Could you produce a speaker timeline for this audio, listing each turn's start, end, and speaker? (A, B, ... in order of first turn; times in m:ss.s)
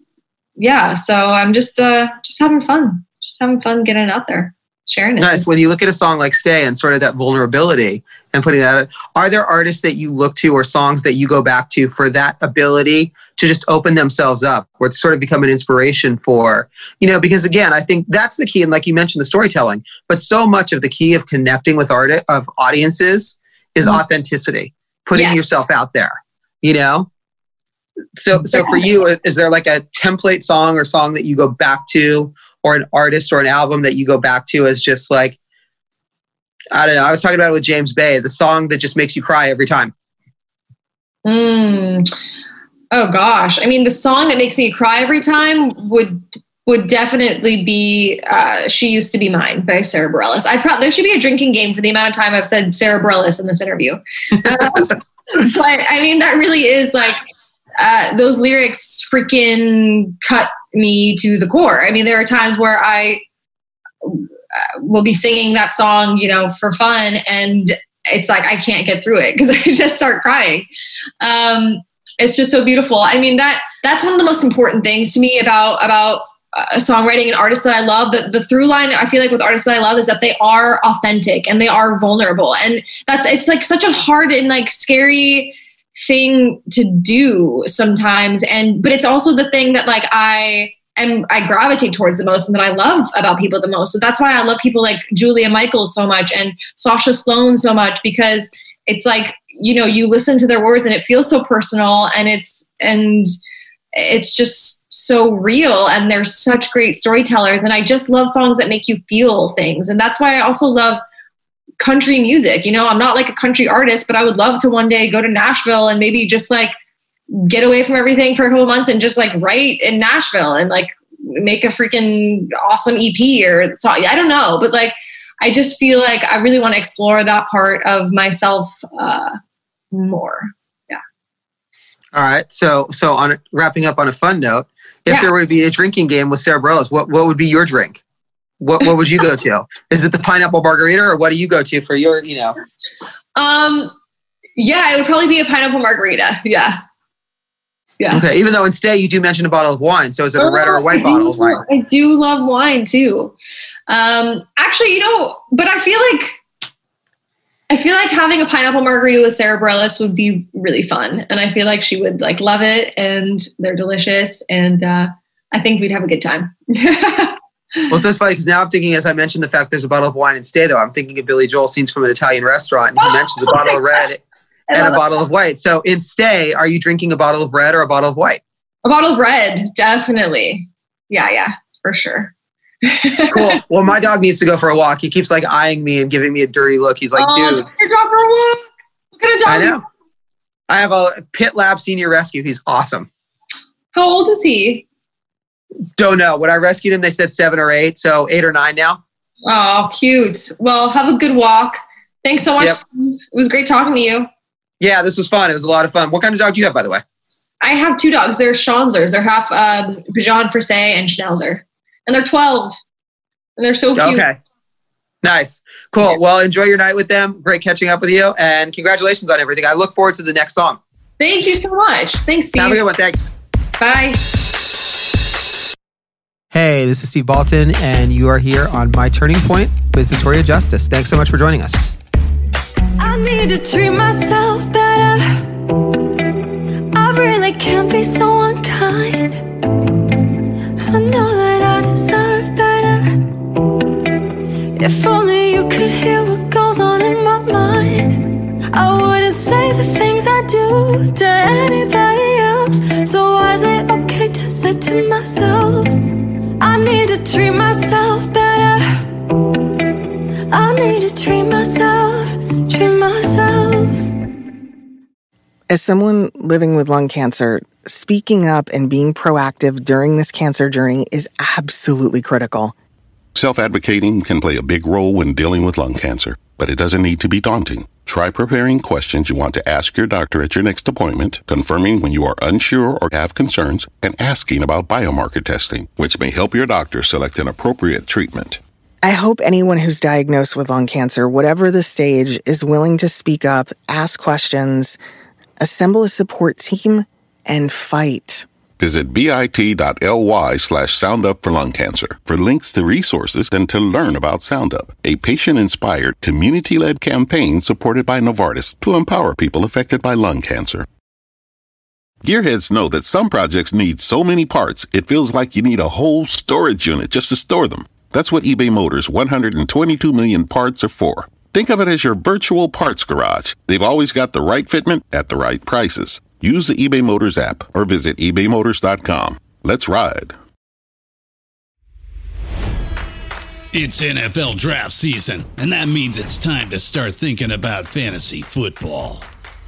0:00.6-0:05.4 A
0:05.2-0:27.1 B
0:25.1-0:25.4 A
0:28.2-0:35.4 B
0:28.4-0:28.9 A
0:36.7-0:39.9 B
0:41.2-0:42.1 A
0:42.9-0:57.2 A
0:57.8-1:03.2 A
1:04.0-1:10.7 A
1:11.2-1:43.3 A
1:44.0-1:51.0 A
1:51.8-1:56.7 A
1:57.3-2:09.4 A
2:09.9-2:11.0 A
2:12.1-2:18.0 B
2:18.6-2:22.6 B
2:23.4-2:23.9 A
2:24.6-2:26.8 A
2:28.0-2:28.2 A
2:28.1-2:31.6 B
2:30.4-2:33.3 A
2:33.9-2:36.4 A
2:37.7-2:47.9 A
2:47.9-2:54.2 B
2:53.0-2:53.8 A
2:54.7-2:55.0 A
2:54.7-2:58.4 B
2:58.8-3:02.3 A
3:02.8-3:03.6 A
3:03.3-3:07.7 B
3:07.2-3:09.8 A
3:09.5-3:09.8 B
3:10.7-3:13.1 B
3:13.9-3:14.9 A
3:16.0-3:19.0 B
3:19.5-3:24.3 A
3:24.8-3:27.0 B
3:27.6-3:32.8 A
3:33.6-3:34.3 A
3:34.0-3:34.4 B
3:35.2-3:40.8 B
3:41.2-3:42.8 A
3:42.6-3:43.3 B
3:43.8-3:44.2 A
3:46.5-3:51.8 B
3:53.0-3:55.5 C
3:56.9-3:59.4 C
4:00.8-4:03.3 C
4:04.8-4:16.0 C
4:16.6-4:19.1 C
4:20.5-4:24.0 C
4:25.7-4:32.8 D
4:33.3-4:48.6 E
4:49.0-4:55.0 D
4:55.6-4:58.5 D
4:58.8-5:10.9 E
5:12.2-5:30.4 E
5:33.7-5:39.3 F